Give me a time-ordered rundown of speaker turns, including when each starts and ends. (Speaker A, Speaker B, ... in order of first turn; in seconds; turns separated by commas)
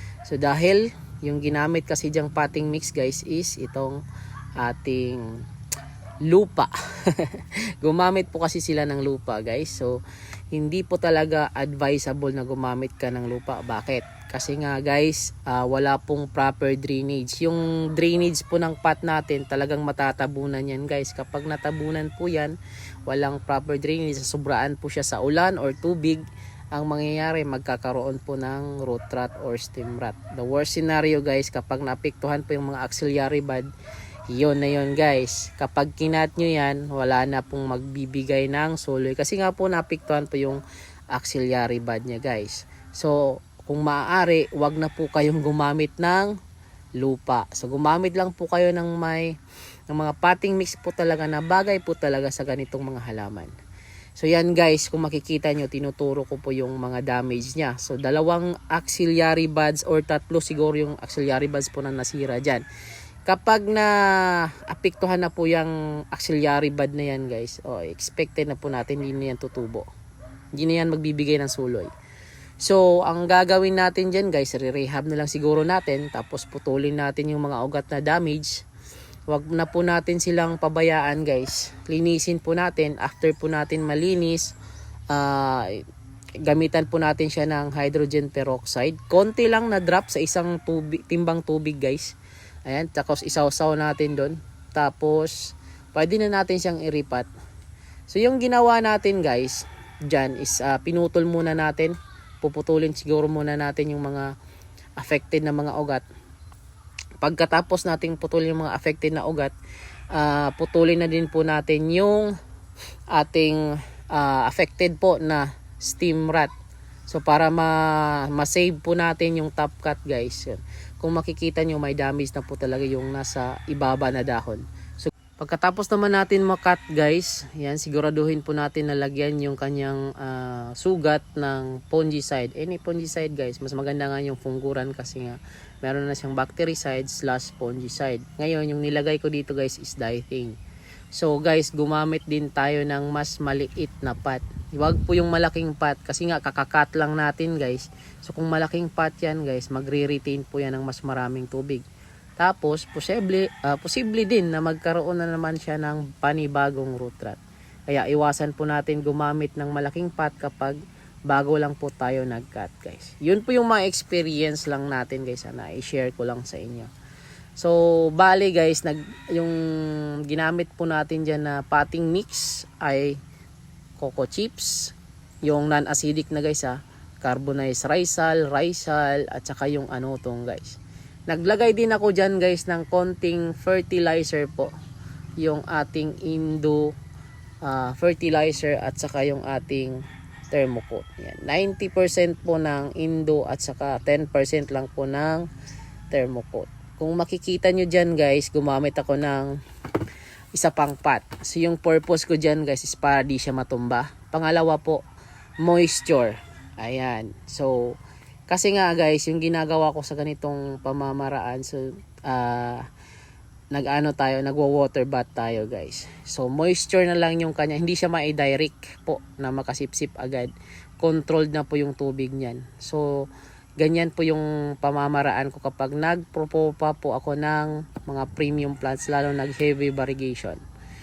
Speaker A: 0.2-4.0, Speaker A: 4.6-5.4, Speaker A: 6.2-10.0, Speaker A: 10.5-22.6, Speaker A: 23.1-33.7, Speaker A: 34.3-46.4, Speaker A: 47.0-49.4, Speaker A: 49.9-53.5, Speaker A: 54.2-62.6, Speaker A: 63.3-69.9, Speaker A: 70.5-71.9, Speaker A: 72.6-78.7, Speaker A: 79.3-84.5, Speaker A: 85.1-85.8, Speaker A: 86.4-97.3, Speaker A: 98.1-104.3, Speaker A: 105.0-106.0, Speaker A: 107.2-109.5, Speaker A: 110.1-112.3, Speaker A: 113.1-116.5, Speaker A: 117.1-140.6, Speaker A: 141.1-151.8, Speaker A: 152.4-160.8, Speaker A: 161.3-166.9, Speaker A: 167.6-173.2, Speaker A: 174.0-174.9, Speaker A: 175.5-184.7, Speaker A: 185.4-186.9, Speaker A: 187.6-195.5, Speaker A: 196.1-199.6, Speaker A: 200.5-205.0, Speaker A: 205.6-212.9, Speaker A: 213.7-223.3, Speaker A: 223.8-230.6